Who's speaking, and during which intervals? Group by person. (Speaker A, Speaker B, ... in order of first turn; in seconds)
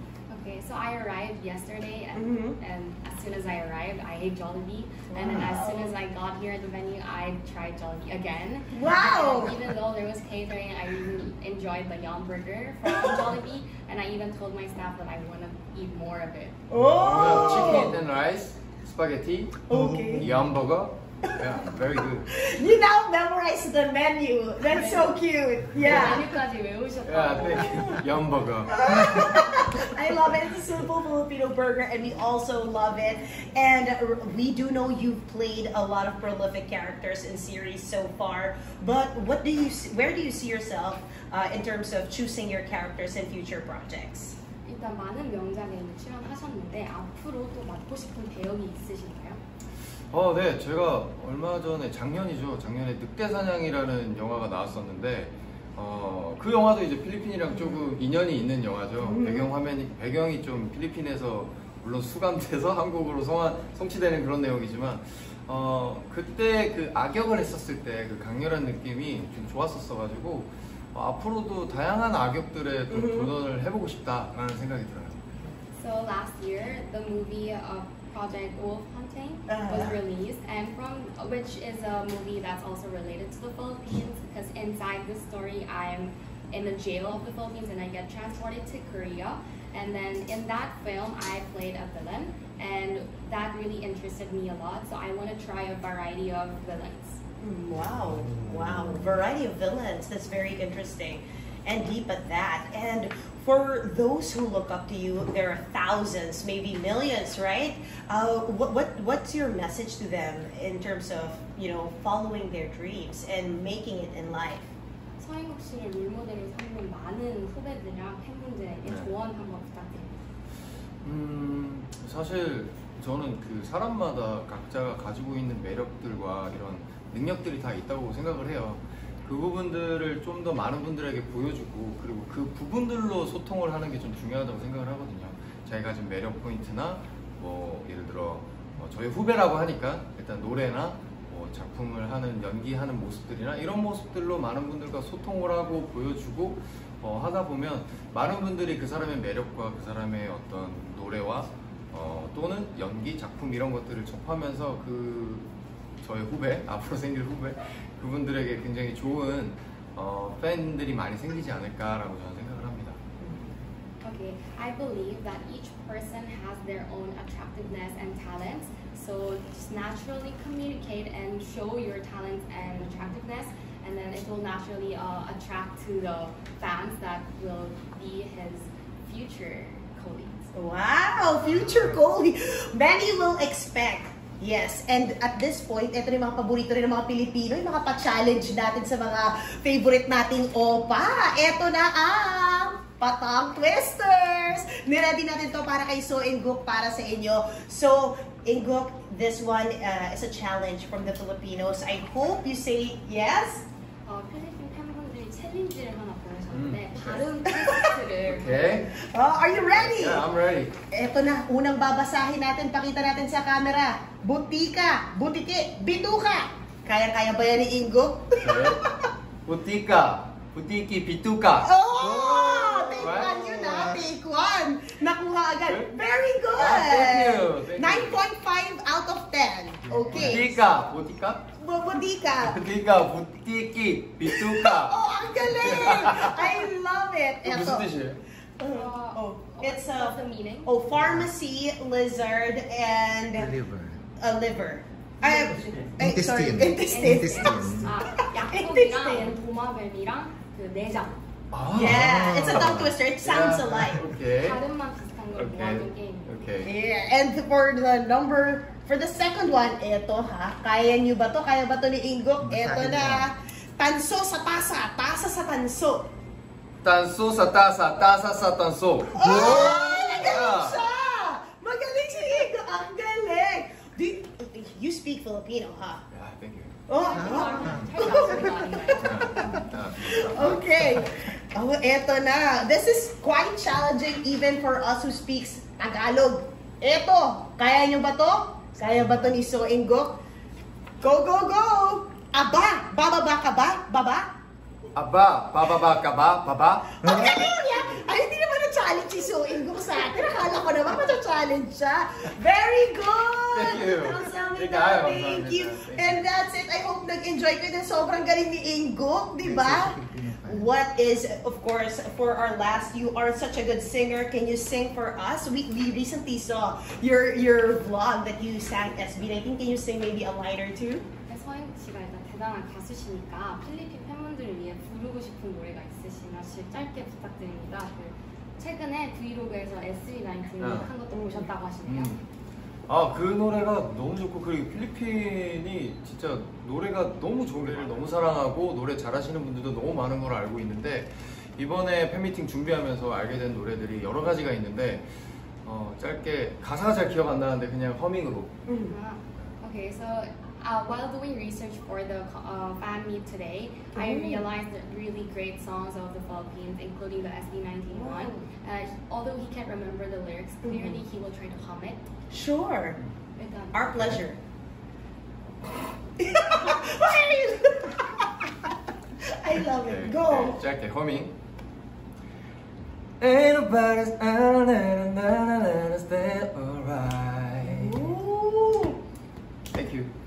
Speaker A: 0.3-16.6, 17.3-17.9, 24.7-25.1, 25.7-28.0, 44.6-49.4, 75.8-97.2, 115.2-120.2, 164.0-180.5, 204.0-208.9, 238.7-240.7, 245.2-245.8, 246.9-251.2, 254.3-256.3, 276.9-279.3, 321.3-332.1, 348.9-362.1, 363.4-363.9
Speaker B: 2.1-2.6, 5.1-5.9, 8.7-9.6, 12.8-13.3, 16.7-18.0, 19.7-20.3, 22.3-26.3, 28.6-44.4, 57.5-57.8, 59.0-59.5, 72.9-73.3, 79.5-80.0, 97.4-114.7, 163.2-163.5, 180.5-203.6, 207.4-207.9, 208.9-210.3, 210.9-218.9, 221.6-230.6, 231.5-232.6, 234.2-237.9, 238.6-243.6, 244.2-249.4, 251.7-254.1, 256.6-266.1, 269.1-276.0, 276.9-290.2, 291.0-294.3, 296.9-321.0, 331.2-331.5, 348.7-348.9, 353.9-354.4, 357.9-358.4, 360.6-361.0, 362.3-363.0, 363.7-364.4, 366.2-368.5, 369.2-370.6, 377.6-379.0
Speaker C: 17.0-22.3, 25.9-26.1, 27.1-28.7, 50.1-75.2, 118.8-119.1, 121.0-155.5, 156.0-163.0, 206.5-207.2, 208.2-208.9, 209.7-210.8, 218.4-221.7, 222.9-223.8, 225.7-225.9, 226.5-228.2, 230.1-231.4, 232.4-236.7, 237.4-238.2, 251.5-254.6, 255.3-256.7, 266.8-270.8, 276.1-276.8, 277.6-278.1, 278.9-281.0, 294.9-296.9, 303.5-306.2, 330.6-330.9, 331.8-332.2, 332.9-345.1, 345.6-348.5, 363.9-364.2, 369.8-371.3, 373.2-378.1, 379.7-380.1
Speaker D: 19.7-20.1, 222.0-224.0, 243.4-244.0, 246.0-247.9, 251.8-252.9, 262.4-263.3, 269.2-269.9, 277.2-278.3, 297.0-297.4, 309.4-310.7